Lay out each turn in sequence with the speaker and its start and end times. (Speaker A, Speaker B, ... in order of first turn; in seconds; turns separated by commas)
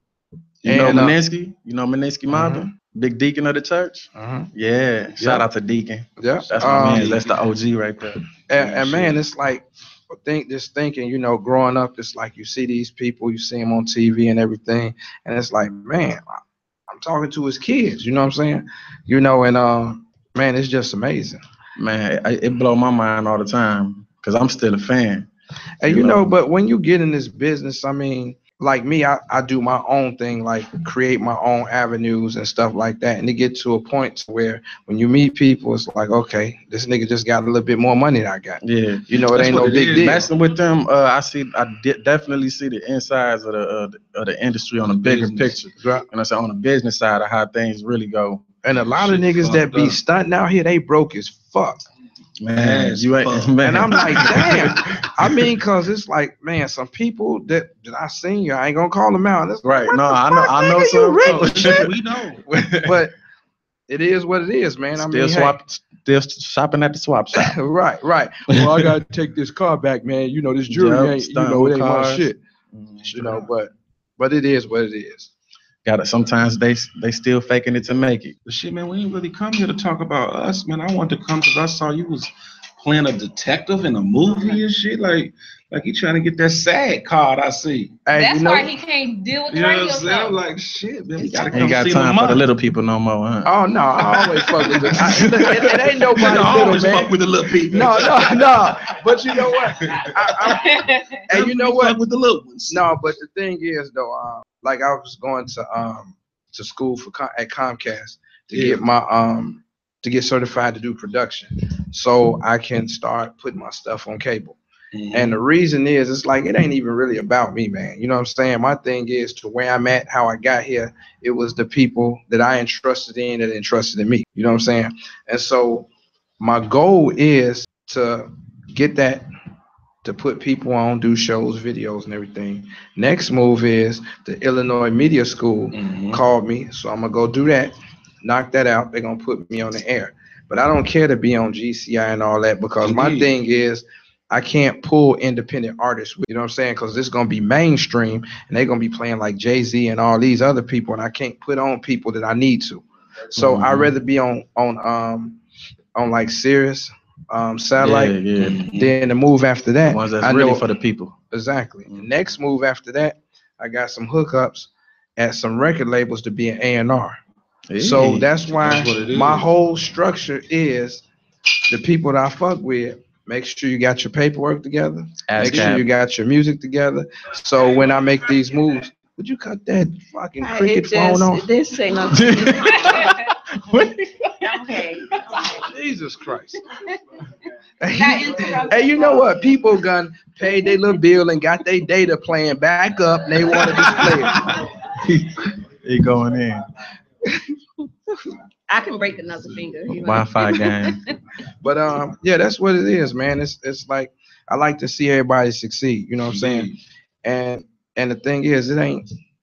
Speaker A: 0.6-1.1, Speaker B: 0.6-8.2, Speaker A: 2.3-2.7, Speaker A: 4.1-4.5, Speaker A: 5.2-5.4, Speaker A: 6.2-7.2, Speaker C: 6.6-7.2, Speaker A: 8.5-21.4, Speaker C: 8.6-9.1, Speaker B: 21.8-25.3, Speaker A: 25.8-40.3, Speaker B: 25.9-26.2, Speaker B: 38.6-48.5, Speaker C: 39.4-40.2, Speaker C: 45.0-45.5, Speaker A: 45.8-46.0, Speaker A: 48.6-51.9, Speaker C: 48.9-50.0, Speaker B: 52.4-54.6, Speaker C: 52.5-54.4, Speaker A: 53.6-61.9, Speaker B: 59.6-61.9, Speaker C: 61.2-62.4, Speaker B: 62.5-62.9, Speaker A: 62.8-63.1, Speaker A: 63.9-65.5, Speaker B: 65.0-67.5, Speaker A: 67.3-72.4, Speaker B: 68.5-68.9, Speaker B: 70.7-73.3, Speaker A: 73.0-75.3, Speaker C: 73.0-73.4, Speaker B: 75.8-78.3, Speaker C: 78.5-88.0, Speaker A: 88.0-88.7, Speaker D: 88.1-90.4, Speaker C: 89.5-92.4, Speaker A: 91.2-91.8, Speaker B: 91.5-93.5, Speaker A: 93.4-102.0, Speaker C: 94.7-95.1, Speaker B: 95.0-95.5, Speaker C: 96.2-98.5, Speaker D: 100.6-101.2, Speaker C: 101.3-102.8, Speaker A: 102.7-114.6, Speaker C: 108.5-108.8, Speaker C: 114.9-115.4, Speaker A: 115.1-125.9, Speaker A: 126.4-129.2, Speaker A: 130.0-155.4, Speaker C: 135.7-136.2, Speaker C: 142.8-143.3, Speaker B: 153.4-153.9, Speaker A: 155.9-160.6, Speaker B: 157.8-158.7, Speaker C: 158.4-158.9, Speaker B: 159.9-161.2, Speaker A: 161.3-167.2, Speaker B: 167.7-168.3, Speaker A: 167.8-171.0, Speaker C: 168.5-169.4, Speaker A: 171.7-181.4, Speaker B: 175.3-175.9, Speaker E: 180.4-183.1, Speaker B: 182.1-184.3, Speaker E: 184.4-185.1, Speaker A: 185.6-186.6, Speaker A: 187.8-194.5, Speaker D: 187.9-189.2, Speaker E: 188.0-189.3, Speaker B: 195.0-196.6, Speaker E: 198.7-200.9, Speaker B: 199.9-201.0, Speaker A: 201.6-206.7, Speaker C: 206.3-206.8, Speaker A: 207.2-209.0